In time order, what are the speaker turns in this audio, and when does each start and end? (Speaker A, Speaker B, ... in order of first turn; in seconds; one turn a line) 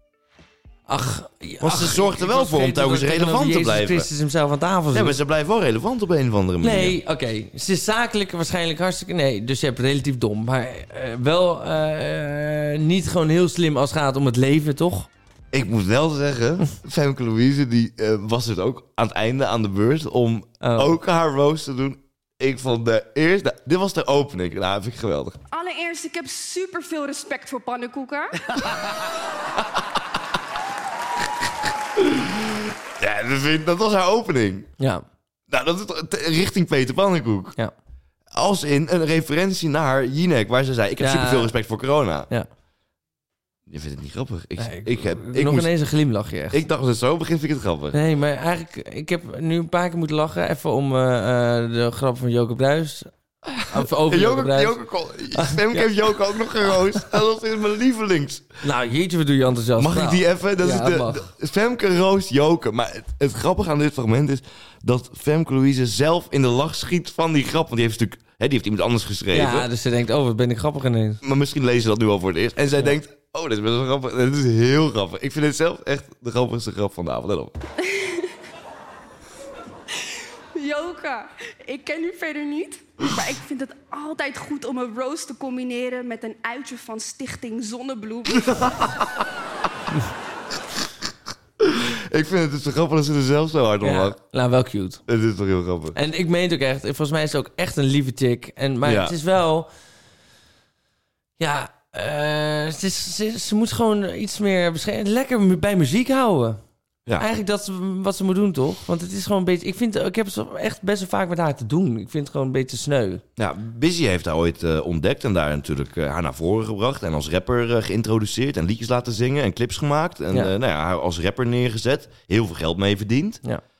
Speaker A: 0.9-5.2
Speaker B: 1.6-4.1
Speaker B: 4.9-7.0
Speaker A: 6.6-15.1
Speaker B: 15.5-25.4
Speaker A: 20.6-20.9
Speaker C: 25.5-28.6
Speaker B: 31.9-34.7
Speaker A: 34.8-35.0
Speaker B: 35.5-37.5
Speaker B: 38.3-42.3
Speaker A: 41.0-41.5
Speaker B: 43.7-45.7
Speaker A: 44.6-46.6
Speaker B: 46.5-48.0
Speaker A: 47.9-53.1
Speaker B: 53.5-58.6
Speaker A: 53.7-57.1
Speaker A: 58.6-61.3
Speaker B: 59.8-69.7
Speaker A: 69.3-71.2
Speaker B: 71.2-77.5
Speaker C: 77.8-78.3
Speaker C: 79.9-88.9
Speaker B: 91.6-94.2
Speaker A: 93.8-95.0
Speaker B: 95.1-96.0
Speaker A: 95.9-99.7
Speaker B: 98.8-99.2
Speaker A: 101.4-106.6
Speaker A: 107.2-113.2
Speaker B: 113.3-123.4